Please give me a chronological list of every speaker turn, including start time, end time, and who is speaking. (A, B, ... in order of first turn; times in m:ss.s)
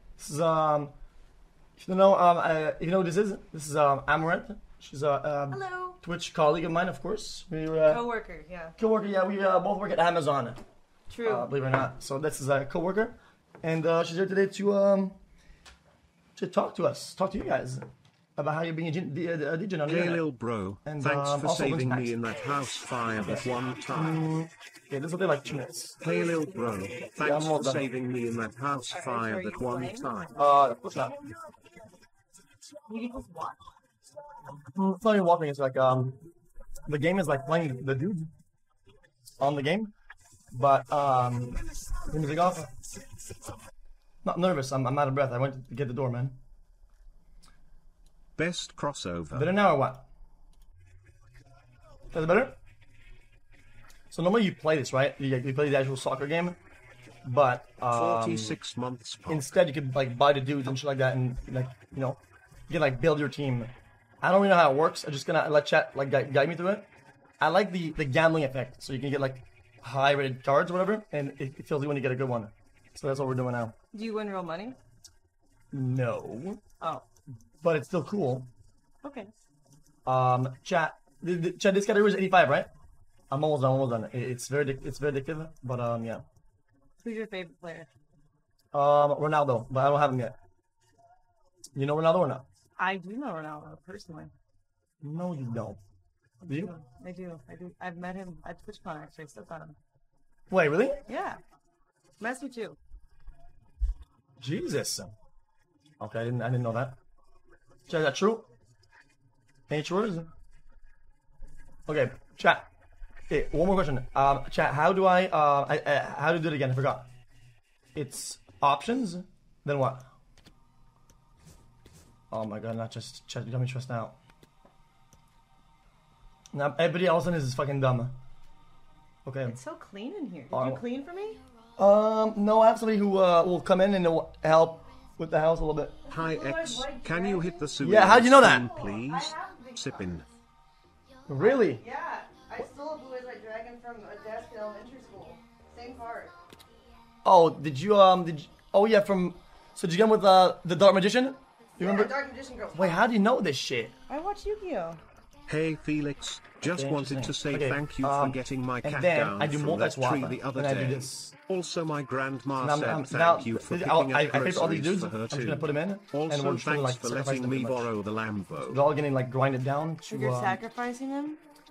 0:00.2-0:00.9 A
0:01.8-0:08.1 A
0:05.5-0:06.0 B
0:07.8-0:08.8 B
0:08.8-0:10.6 A
0:11.1-0:11.5 B
0:11.2-0:15.2 A
0:16.4-0:17.8 A
0:18.4-0:20.2 A
0:19.8-0:24.3 C
0:20.8-0:22.2 A
0:23.2-0:26.0 A
0:26.0-0:30.4 C
0:27.2-0:27.9 A
0:28.9-0:30.1 B
0:30.3-0:31.2 A
0:32.8-0:33.6 B
0:34.7-0:36.2 A
0:36.8-0:38.3 A
0:39.4-0:39.9 A
0:40.5-0:42.7 A
0:44.2-0:46.4 A
0:48.4-0:49.5 C
0:49.3-0:50.1 A
0:52.1-0:52.6 A
0:54.1-0:56.6 A
0:57.2-0:58.6 A
0:57.9-0:59.6 C
0:59.3-1:06.9 A
1:07.4-1:13.8 A
1:13.9-1:14.8 B
1:15.7-1:16.6 A
1:16.8-1:17.0 B
1:17.6-1:18.5 A
1:19.0-1:19.3 B
1:20.0-1:22.7 A
1:23.3-1:26.2 A
1:27.0-1:27.9 B
1:28.7-1:30.4 A
1:31.7-1:32.4 A
1:32.8-1:34.3 B
1:35.0-1:35.8 A
1:36.4-1:36.7 A
1:36.4-1:39.8 B
1:40.5-1:41.0 A
1:41.1-1:41.4 B
1:42.2-1:42.8 B
1:44.4-1:45.1 A
1:46.0-1:47.0 A
1:47.9-1:48.5 A
1:49.7-1:50.3 A
1:51.9-1:52.7 A
1:53.3-1:57.1 A
1:57.9-2:00.1 A
2:02.3-2:04.2 A
2:06.5-2:08.2 A
2:09.2-2:09.6 A
2:09.5-2:11.4 B
2:10.5-2:10.8 A
2:11.8-2:16.0 A
2:16.1-2:20.2 C
2:16.1-2:20.2 B
2:17.8-2:18.7 A
2:21.3-2:21.8 A
2:21.4-2:26.3 B
2:27.2-2:32.1 A
2:31.8-2:33.0 B
2:32.7-2:33.9 A
2:34.1-2:35.0 B
2:35.5-2:48.8 C
2:36.6-2:41.3 A
2:42.6-2:47.9 A
2:48.7-2:50.6 A
2:50.1-2:51.4 B